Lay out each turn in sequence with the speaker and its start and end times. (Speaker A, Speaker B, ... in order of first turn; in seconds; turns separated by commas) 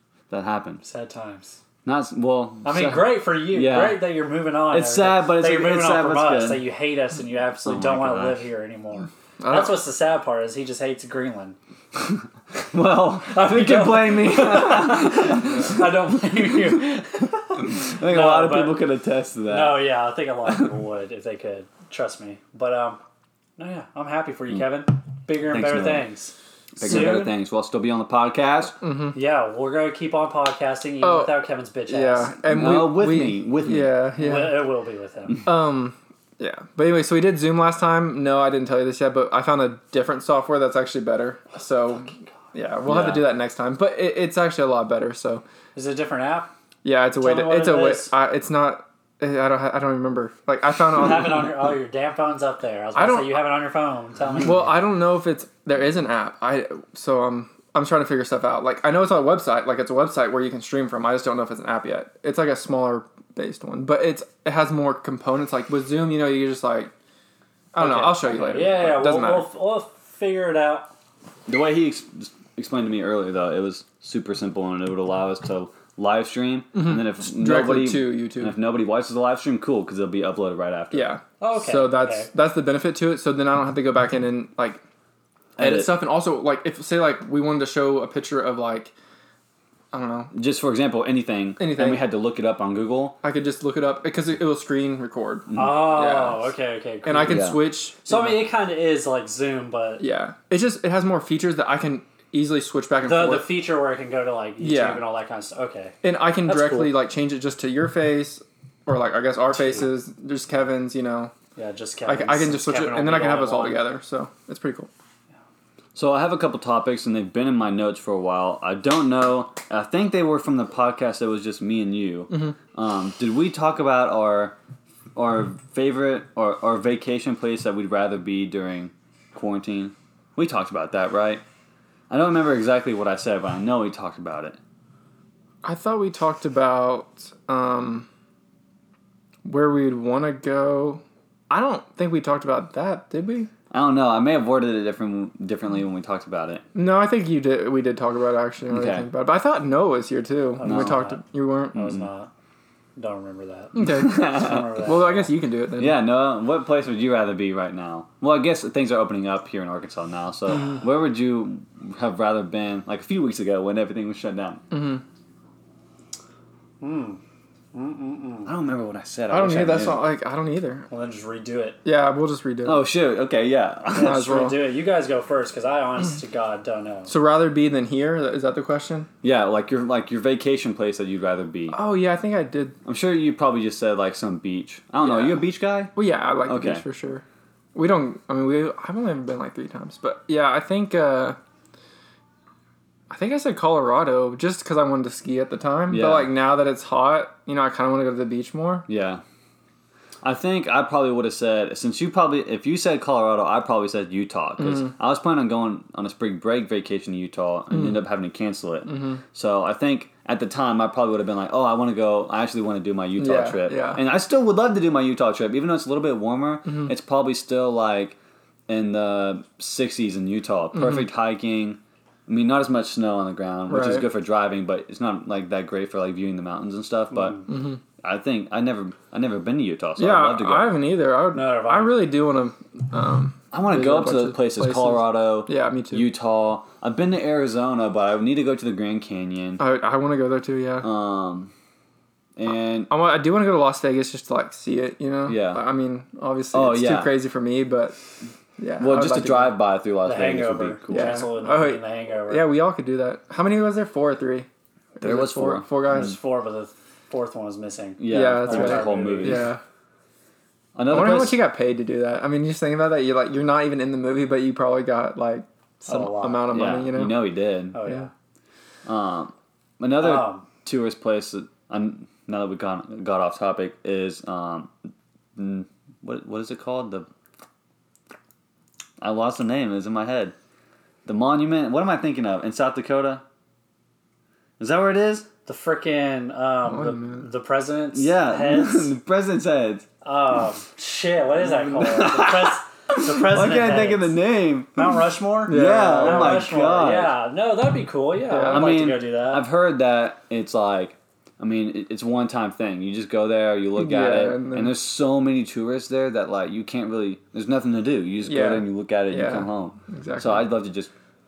Speaker A: 0.3-0.8, Speaker B: 0.8-1.6, Speaker A: 1.9-4.1, Speaker B: 2.6-11.6, Speaker A: 4.7-6.7, Speaker A: 7.7-8.4, Speaker C: 9.4-9.8, Speaker A: 12.0-16.5, Speaker B: 13.3-18.8, Speaker A: 17.6-19.8, Speaker B: 19.5-23.0, Speaker B: 23.6-27.3, Speaker A: 25.5-26.1, Speaker A: 26.8-28.8, Speaker C: 28.8-29.2, Speaker B: 29.1-32.4, Speaker C: 31.0-31.4, Speaker C: 31.9-34.7, Speaker A: 32.5-34.0, Speaker B: 34.2-35.5, Speaker C: 35.5-45.4, Speaker B: 41.9-42.2, Speaker A: 42.9-43.3, Speaker B: 45.8-46.5, Speaker C: 46.8-51.5, Speaker B: 47.2-48.1, Speaker B: 50.9-54.8, Speaker C: 53.0-53.4, Speaker C: 54.4-66.9, Speaker C: 67.7-69.5, Speaker B: 67.8-70.9, Speaker A: 71.5-81.1, Speaker C: 76.7-78.5, Speaker C: 80.9-84.8, Speaker B: 81.4-82.3, Speaker A: 85.6-86.0, Speaker C: 85.6-88.9, Speaker C: 89.9-90.3, Speaker A: 90.3-93.2, Speaker C: 91.6-92.0, Speaker C: 93.2-96.5, Speaker A: 95.5-95.9, Speaker B: 95.5-100.0, Speaker C: 97.0-98.4, Speaker A: 97.3-97.6, Speaker C: 100.0-103.6, Speaker B: 103.0-107.0, Speaker C: 104.6-105.0, Speaker C: 106.0-111.3, Speaker B: 109.5-109.8, Speaker B: 111.6-113.9, Speaker C: 112.1-114.9, Speaker A: 116.0-124.6, Speaker C: 122.3-122.6, Speaker A: 125.2-131.4, Speaker A: 132.1-134.6, Speaker C: 135.6-138.1, Speaker C: 139.4-143.5, Speaker A: 143.7-146.6, Speaker C: 146.8-152.0, Speaker A: 148.7-149.1, Speaker B: 150.6-152.3, Speaker A: 150.6-151.0, Speaker A: 151.8-152.0, Speaker B: 153.0-155.3, Speaker C: 153.8-156.0, Speaker A: 153.8-154.8, Speaker A: 155.8-164.6, Speaker C: 164.7-165.0, Speaker B: 166.8-167.2, Speaker B: 167.7-168.5, Speaker A: 168.5-170.1, Speaker C: 169.3-170.9, Speaker B: 170.9-171.8, Speaker C: 171.8-172.9, Speaker A: 172.7-174.4, Speaker B: 173.9-177.1, Speaker C: 174.0-174.6, Speaker C: 177.1-179.1, Speaker A: 179.2-181.8, Speaker C: 181.7-182.8, Speaker A: 182.8-186.8, Speaker C: 185.0-185.4, Speaker C: 185.9-187.2, Speaker C: 187.8-191.4, Speaker C: 193.1-198.9, Speaker A: 195.9-196.3, Speaker A: 198.9-199.2, Speaker A: 200.2-218.2, Speaker C: 204.6-204.9, Speaker C: 207.7-208.0, Speaker C: 208.9-209.2, Speaker C: 213.2-214.0, Speaker C: 216.7-216.9, Speaker A: 218.7-227.5, Speaker C: 220.8-221.1, Speaker C: 223.7-224.1, Speaker B: 227.1-227.5, Speaker C: 227.5-227.8, Speaker A: 228.0-230.8, Speaker C: 230.0-236.1, Speaker B: 231.3-232.1, Speaker A: 233.5-239.6, Speaker C: 239.6-240.9, Speaker A: 240.8-241.5, Speaker A: 242.4-242.9, Speaker C: 242.9-248.0, Speaker A: 245.3-245.6, Speaker A: 246.5-247.2, Speaker C: 248.6-249.5, Speaker A: 248.8-251.3, Speaker B: 250.1-252.5, Speaker C: 250.9-256.2, Speaker A: 255.0-256.2, Speaker B: 255.8-259.5, Speaker A: 258.0-259.5, Speaker C: 258.1-259.6, Speaker A: 260.8-261.4, Speaker C: 260.9-267.2, Speaker B: 265.9-266.5, Speaker A: 266.5-267.8, Speaker B: 267.7-268.1, Speaker A: 268.9-274.7, Speaker B: 270.0-270.5, Speaker A: 275.4-277.1, Speaker A: 279.0-280.3, Speaker A: 281.1-283.2, Speaker A: 284.6-285.3, Speaker B: 285.5-288.9, Speaker C: 286.7-287.2, Speaker A: 287.9-289.9, Speaker B: 290.0-294.2, Speaker A: 291.4-294.9, Speaker B: 294.8-299.4, Speaker C: 295.5-296.5, Speaker A: 295.5-297.1, Speaker C: 298.3-298.7, Speaker A: 298.5-310.9, Speaker C: 303.8-304.7, Speaker C: 308.3-310.5